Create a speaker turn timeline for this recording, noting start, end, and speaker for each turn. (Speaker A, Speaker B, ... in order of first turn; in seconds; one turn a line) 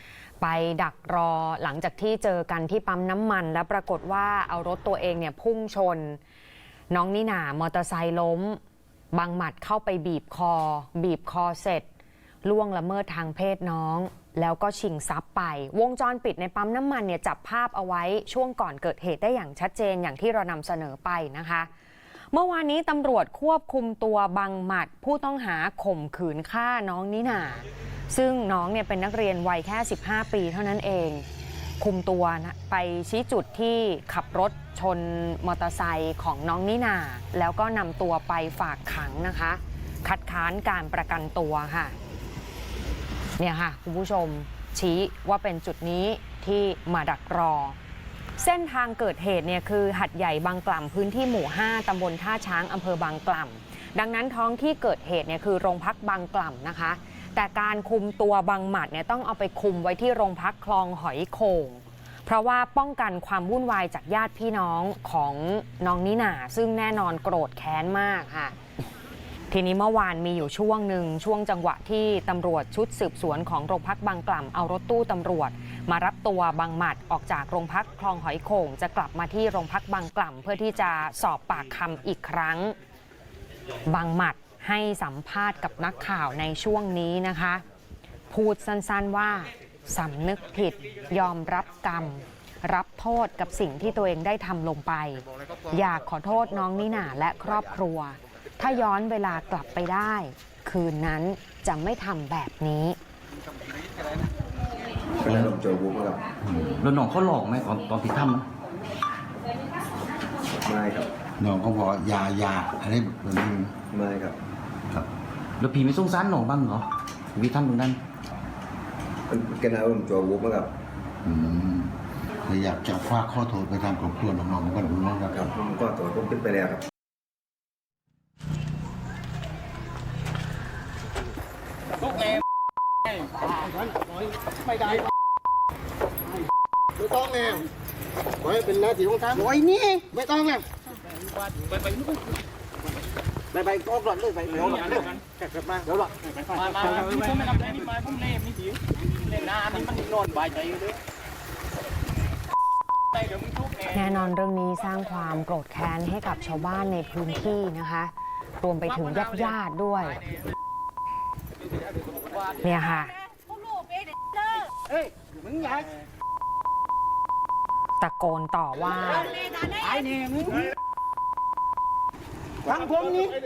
Speaker A: 0.4-6.2
Speaker A: 6.9-8.6
Speaker A: 9.1-11.8
Speaker A: 12.4-21.7
Speaker A: 22.3-31.2
Speaker A: 31.8-42.0
Speaker A: 43.4-47.8
Speaker A: 48.4-68.5
Speaker A: 69.5-82.8
Speaker A: 83.8-87.6
Speaker A: 88.3-103.0
Speaker B: 105.2-106.3
Speaker C: 106.5-108.5
Speaker B: 110.6-111.1
Speaker D: 111.4-113.8
Speaker B: 113.9-114.3
Speaker C: 115.6-118.0
Speaker B: 119.3-120.7
Speaker D: 121.2-121.9
Speaker D: 122.5-125.5
Speaker B: 125.3-126.8
Speaker E: 137.2-137.6
Speaker E: 138.5-140.6
Speaker E: 143.5-145.1
Speaker F: 144.5-144.8
Speaker F: 146.6-148.7
Speaker F: 149.3-150.9
Speaker A: 153.8-160.2
Speaker A: 162.6-163.2
Speaker A: 168.0-169.9
Speaker F: 170.1-170.5
Speaker E: 172.8-173.3